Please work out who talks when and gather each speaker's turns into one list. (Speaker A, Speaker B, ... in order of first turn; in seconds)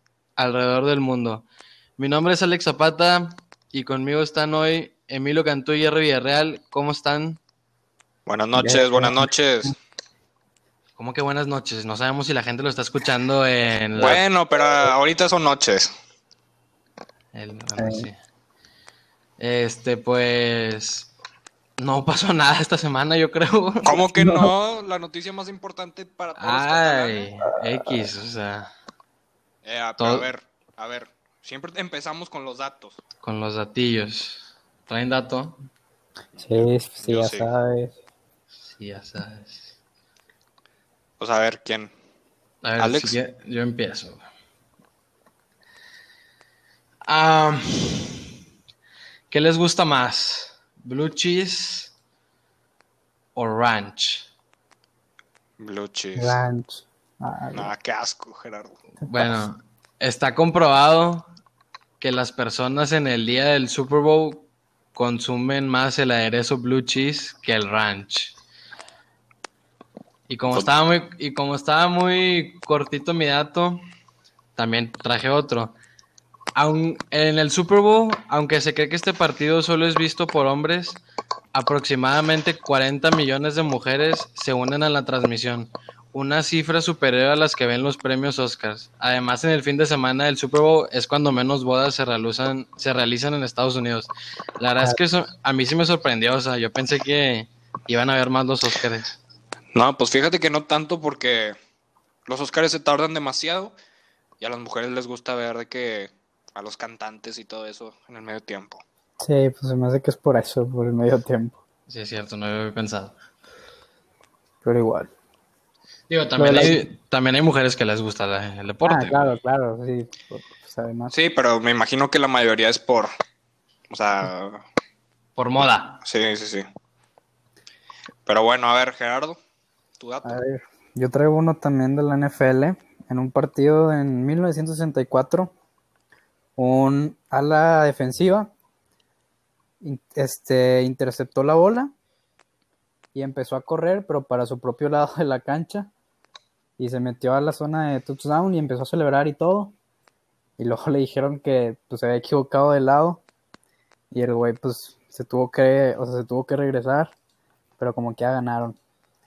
Speaker A: 0.4-1.5, 2.0-7.4, 11.0-14.2, 17.3-18.2, 19.4-21.1, 21.8-24.0, 26.4-28.7, 30.0-30.3, 33.2-35.6, 38.7-39.7, 42.6-44.2, 47.1-48.3, 49.3-51.9, 53.4-54.2, 59.1-61.3, 62.0-68.3, 70.3-73.9, 74.6-75.8, 76.5-81.0, 81.5-99.2, 111.9-113.2, 116.1-119.3, 125.4-126.0
Speaker B: 8.3-9.8, 14.0-15.9, 23.9-27.3, 29.6-33.0, 36.4-37.5, 41.2-41.9, 42.8-43.2, 55.6-56.4, 57.5-58.8, 99.7-101.6, 102.3-103.8, 104.4-108.8, 121.1-123.1, 123.9-124.7, 126.0-126.6, 128.3-129.4, 130.0-130.4
Speaker C: 8.6-9.7, 17.8-18.1, 24.1-24.5, 36.4-38.0, 56.2-57.7, 109.2-111.6, 114.6-115.1, 116.4-116.9, 118.9-121.1, 130.2-135.5, 136.6-138.5, 139.8-141.9, 143.1-145.9, 146.8-149.7, 150.6-153.2, 154.1-157.1, 157.8-158.8